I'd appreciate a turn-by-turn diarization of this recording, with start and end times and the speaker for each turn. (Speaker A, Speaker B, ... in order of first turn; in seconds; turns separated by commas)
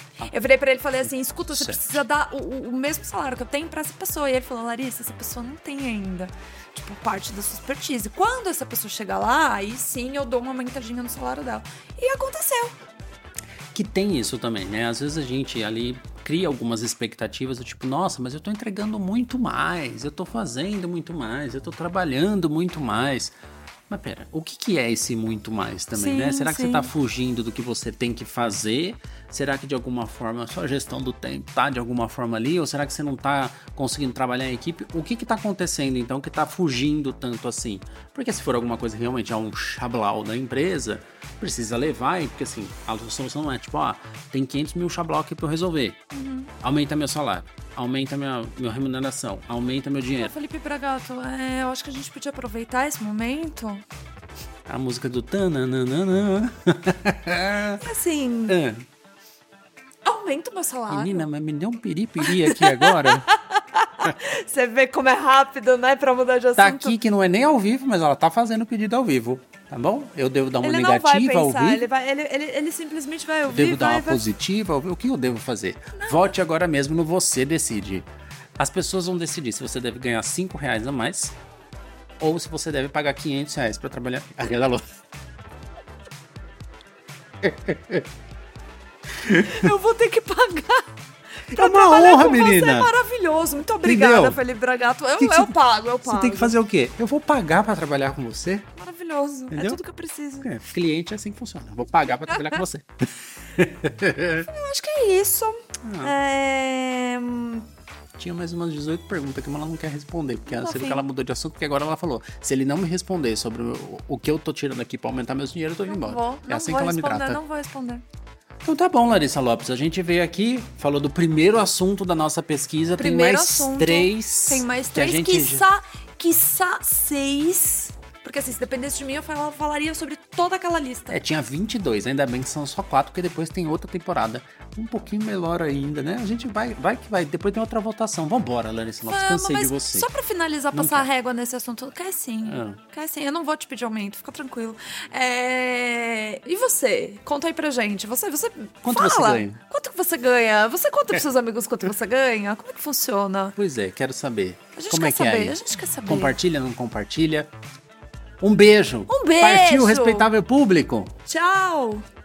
Speaker A: 0.2-12.8, Speaker B: 1.1-2.0, Speaker B: 13.7-23.4, Speaker B: 23.9-46.0, Speaker A: 25.9-26.9, Speaker A: 46.1-46.5, Speaker B: 46.6-50.3, Speaker A: 50.1-53.8, Speaker B: 54.7-57.8, Speaker A: 57.8-58.6, Speaker B: 58.5-58.9, Speaker A: 60.0-61.3, Speaker B: 60.9-63.3, Speaker A: 62.2-67.0, Speaker B: 66.6-71.9, Speaker A: 70.6-74.2, Speaker B: 73.5-81.4, Speaker A: 75.9-76.3, Speaker B: 82.2-84.8, Speaker B: 87.4-88.1, Speaker B: 89.2-89.7, Speaker A: 89.3-96.5, Speaker B: 91.5-92.9, Speaker B: 93.8-94.4, Speaker B: 95.2-98.7, Speaker A: 98.8-100.5, Speaker B: 99.5-99.8, Speaker B: 100.4-102.9, Speaker A: 102.3-102.6, Speaker B: 103.5-104.5, Speaker A: 104.5-107.7, Speaker B: 105.8-106.1, Speaker B: 108.2-117.4, Speaker A: 110.5-111.0, Speaker A: 115.9-118.0, Speaker B: 118.6-125.6, Speaker A: 123.0-131.2, Speaker B: 131.1-140.1, Speaker A: 139.0-153.6, Speaker B: 140.7-141.1, Speaker B: 142.4-142.8, Speaker B: 148.8-149.6, Speaker B: 153.6-157.5, Speaker A: 154.7-156.3, Speaker B: 158.4-161.1, Speaker A: 159.1-160.3, Speaker A: 161.2-162.0